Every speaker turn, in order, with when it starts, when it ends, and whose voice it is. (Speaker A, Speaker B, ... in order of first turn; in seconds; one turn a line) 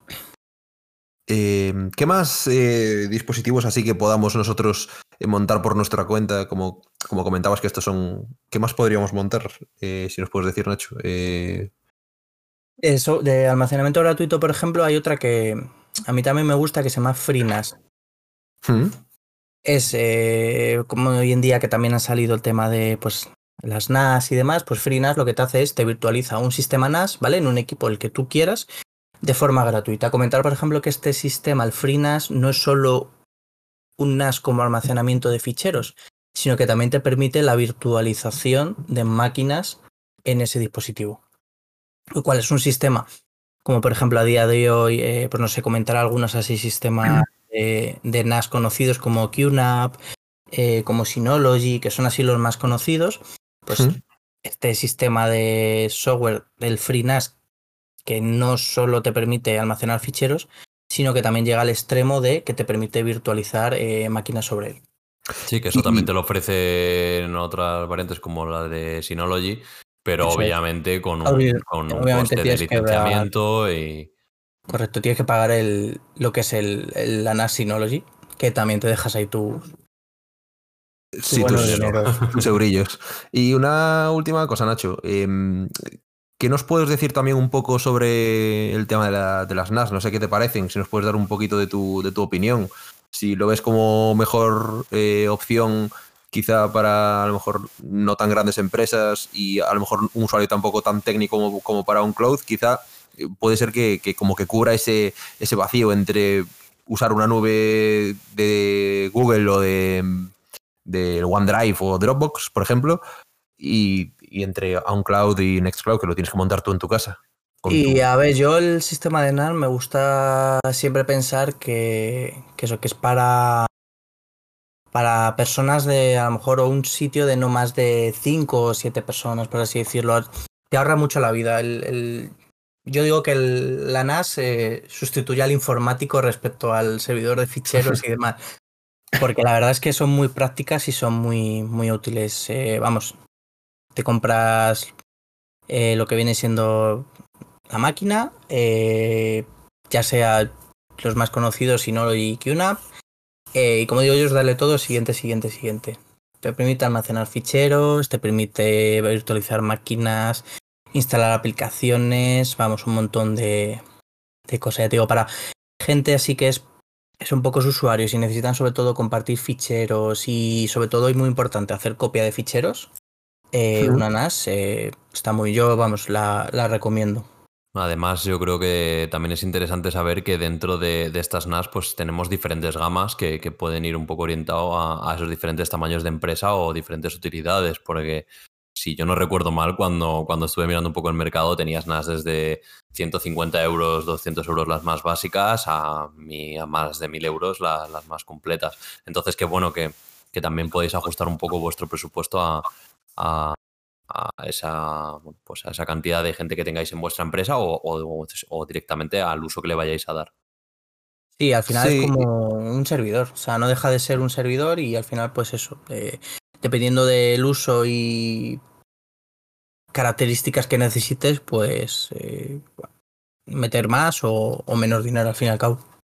Speaker A: 1.3-11.7
Speaker B: 12.8-17.8
Speaker A: 18.6-19.0
Speaker B: 19.6-28.7
Speaker B: 29.2-33.1
Speaker B: 34.0-41.2
Speaker B: 42.1-43.1
Speaker B: 43.6-50.0
Speaker B: 50.5-57.4
Speaker B: 58.0-64.8
Speaker C: 65.4-74.1
Speaker A: 65.7-66.1
Speaker B: 71.2-73.3
Speaker B: 74.7-79.7
Speaker A: 81.2-85.7
Speaker B: 81.3-82.3
Speaker A: 86.4-110.3
Speaker A: 110.8-113.0
Speaker A: 113.6-118.0
Speaker B: 117.7-123.7
Speaker B: 124.9-132.3
Speaker B: 132.9-138.4
Speaker B: 139.1-143.1
Speaker B: 143.9-144.9
Speaker B: 145.7-147.1
Speaker B: 147.7-152.8
Speaker B: 153.5-163.8
Speaker B: 164.5-166.6
Speaker B: 167.2-172.9
Speaker B: 173.5-177.3
Speaker A: 173.8-174.0
Speaker C: 177.7-202.6
Speaker C: 203.2-203.6
Speaker C: 204.1-210.3
Speaker B: 211.4-218.6
Speaker A: 211.7-212.2
Speaker B: 219.9-222.8
Speaker B: 223.5-225.8